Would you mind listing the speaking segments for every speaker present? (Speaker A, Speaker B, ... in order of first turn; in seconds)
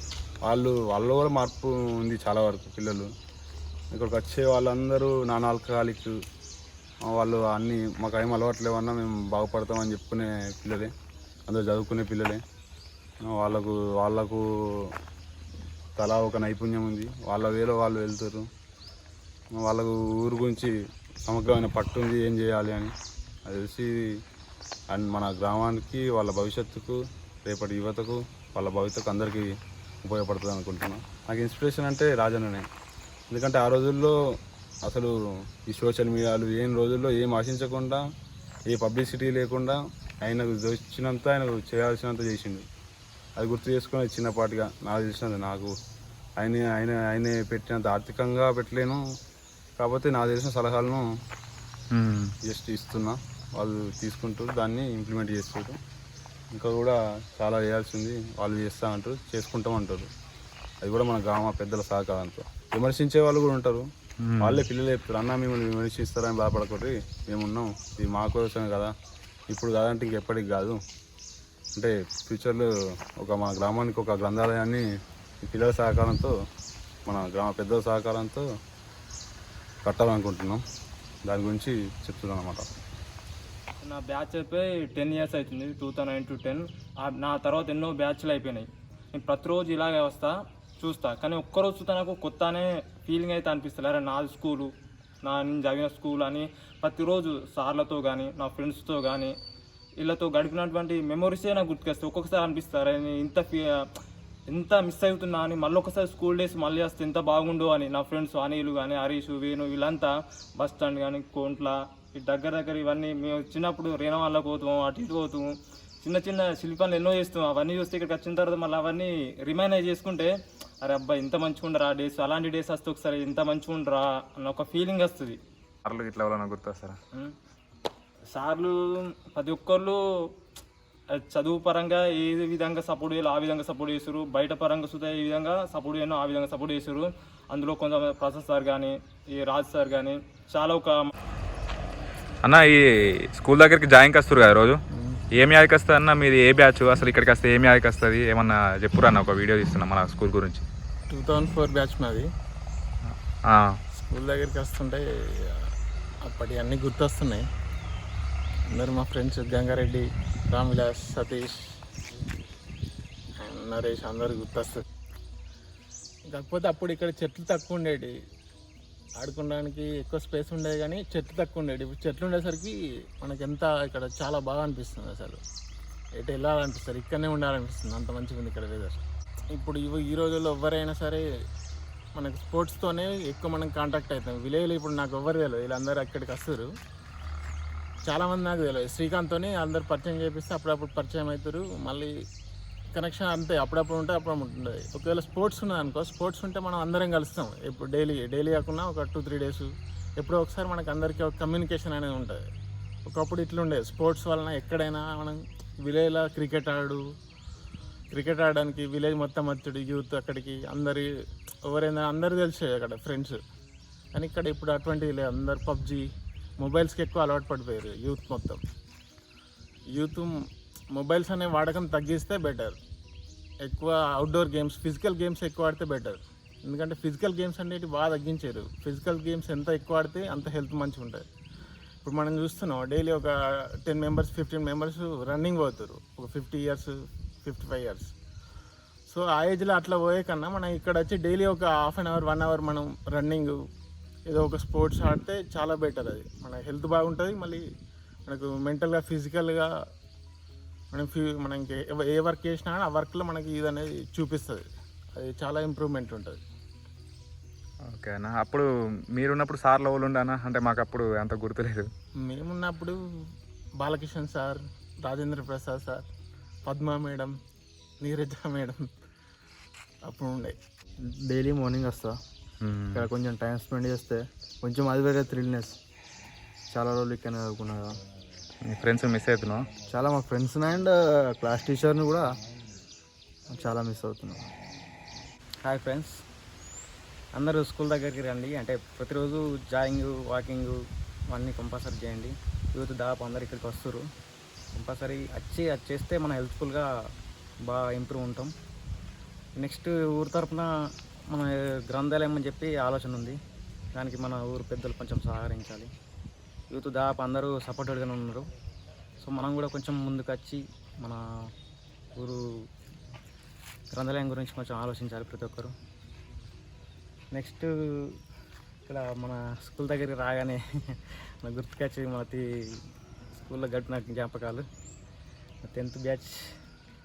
Speaker A: 0.5-3.1, 3.9-6.2, 7.1-10.9, 11.5-12.4, 13.2-14.9, 16.0-18.5, 19.6-20.7, 21.2-22.9, 23.4-23.9, 24.9-32.7, 33.3-34.2, 34.8-35.1, 35.7-38.0, 38.7-42.6, 43.4-45.7, 46.4-49.0, 49.8-51.1, 52.5-55.8, 56.5-60.1, 60.8-63.9, 64.4-68.9, 69.5-70.8, 71.8-74.9, 75.4-76.3, 77.1-78.5, 79.8-80.6, 81.2-82.7
Speaker B: 51.9-52.3, 64.2-64.6, 125.9-127.0, 142.4-142.8, 143.4-144.8, 145.4-150.6, 153.5-153.8, 257.9-261.9, 272.6-273.1, 278.7-279.7
Speaker C: 83.8-94.7, 95.2-99.3, 100.0-103.9, 104.5-115.5, 116.0-120.3, 120.8-125.4, 128.3-130.0, 131.1-141.1
Speaker D: 151.1-152.3, 154.0-155.7, 156.2-157.5, 158.7-161.6, 163.4-164.8, 166.3-168.1, 169.2-175.4, 176.2-179.0, 179.5-181.2, 182.1-186.7, 188.1-192.1, 193.0-199.7, 200.2-202.4, 203.1-207.0, 208.1-211.1, 211.7-213.4, 214.1-216.0, 216.6-218.6, 219.9-220.3, 220.9-222.8, 223.7-231.3, 232.0-238.1, 239.1-243.6, 244.3-247.6, 248.2-249.7, 250.9-256.4, 262.3-263.0, 263.8-266.0, 266.7-267.3, 268.0-268.9, 270.1-270.6
Speaker E: 271.3-272.2, 273.0-275.8, 276.7-277.9, 279.9-282.3, 283.5-284.4
Speaker F: 285.6-286.2, 287.4-290.8, 291.3-294.0, 294.8-296.9, 297.6-298.5, 299.6-300.7, 301.3-303.4, 303.9-305.9, 306.7-308.5, 309.2-311.2, 312.1-312.4, 313.9-315.8, 317.3-318.2, 318.9-322.8, 323.4-324.6, 325.7-326.6